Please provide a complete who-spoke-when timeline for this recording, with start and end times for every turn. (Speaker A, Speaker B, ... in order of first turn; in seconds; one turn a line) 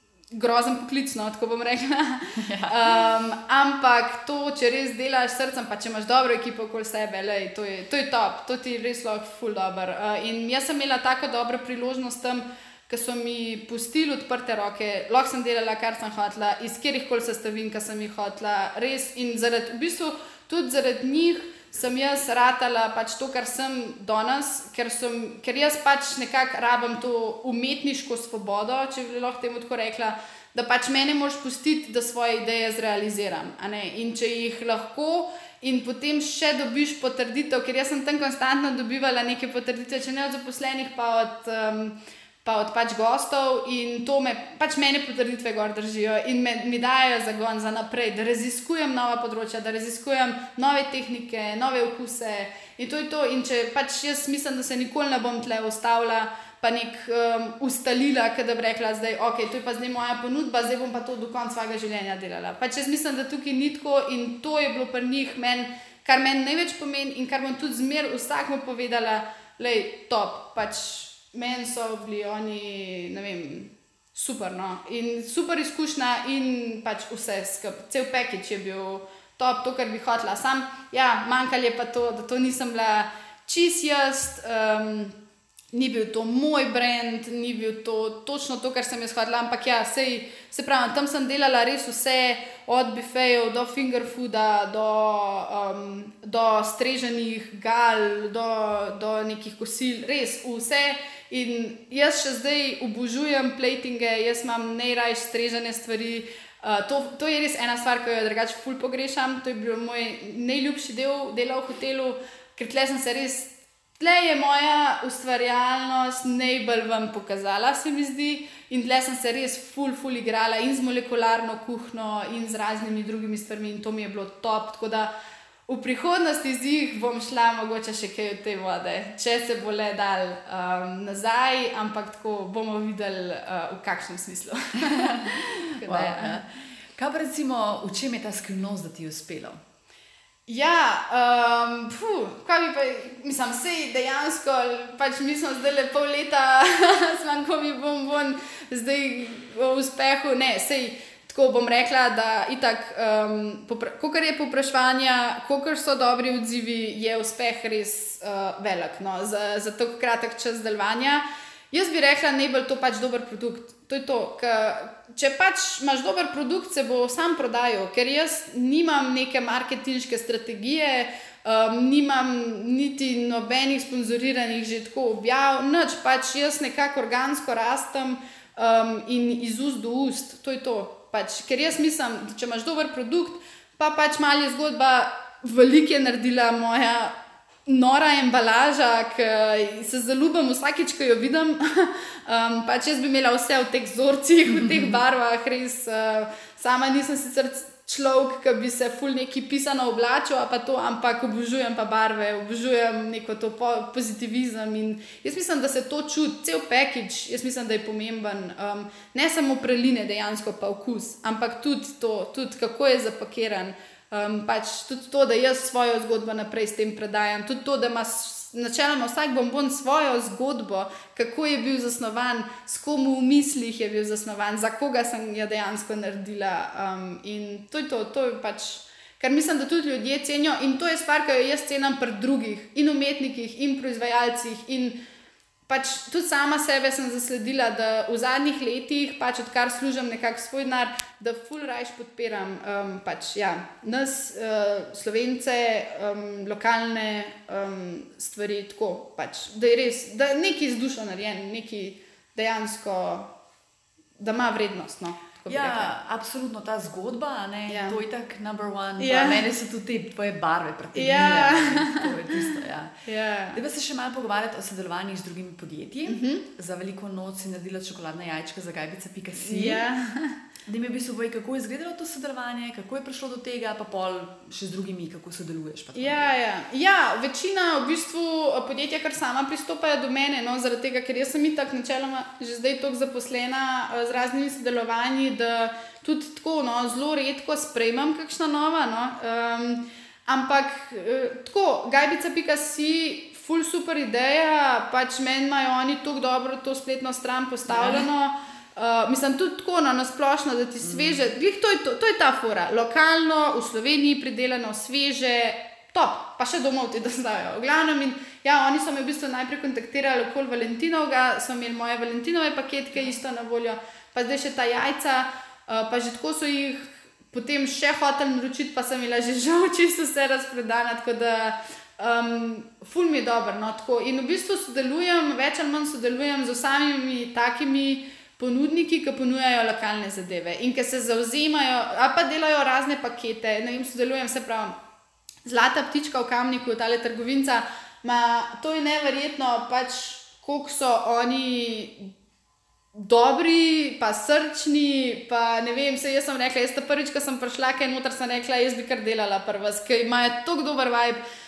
Speaker A: 0.3-85.2
Speaker B: 2.4-3.0
Speaker A: 85.7-125.1
Speaker A: 125.7-136.4
Speaker B: 134.8-139.6
Speaker A: 140.5-187.2
Speaker A: 187.7-235.0
Speaker B: 194.5-195.0
Speaker A: 235.7-253.3
Speaker A: 254.2-255.9
Speaker B: 255.5-269.8
Speaker A: 257.7-258.0
Speaker A: 259.0-259.5
Speaker A: 260.9-262.6
Speaker A: 263.1-263.6
Speaker A: 266.1-266.4
Speaker A: 269.4-270.4
Speaker B: 270.7-276.3
Speaker A: 275.9-334.8
Speaker B: 297.7-298.1
Speaker B: 300.8-301.2
Speaker A: 335.4-342.1
Speaker A: 342.9-351.2